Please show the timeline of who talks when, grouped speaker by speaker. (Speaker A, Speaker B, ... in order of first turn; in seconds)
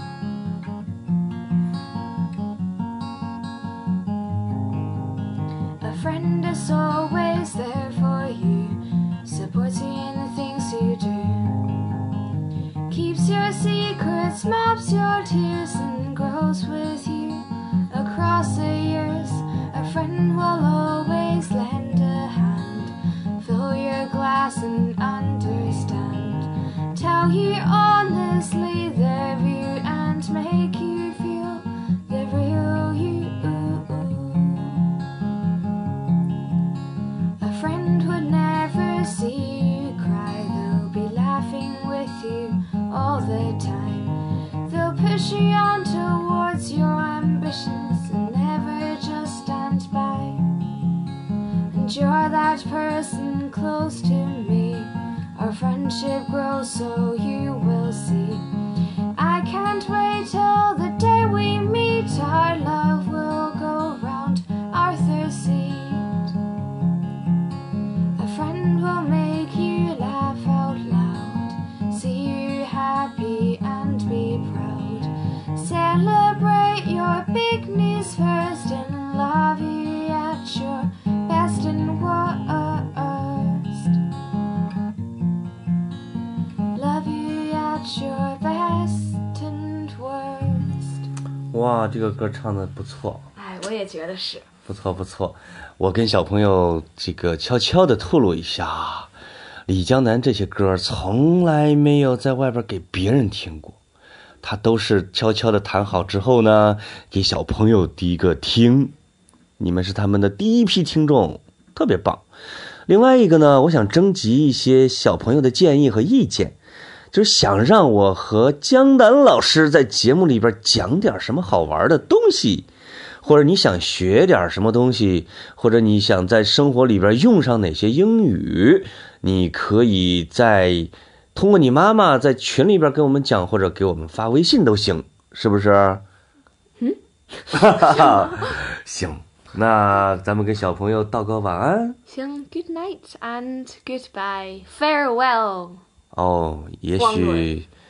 Speaker A: 5.8-11.8, 12.9-34.9, 37.4-50.5, 51.7-58.5, 59.1-66.3, 68.1-84.0, 86.7-91.0, 93.3-94.4, 137.5-138.5, 142.1-145.8, 147.0-147.6
Speaker B: 91.5-93.3, 94.7-99.1, 99.7-103.8, 104.4-108.9, 109.6-112.3, 112.9-116.6, 117.1-122.7, 123.2-136.0, 137.5-142.0, 146.1-147.7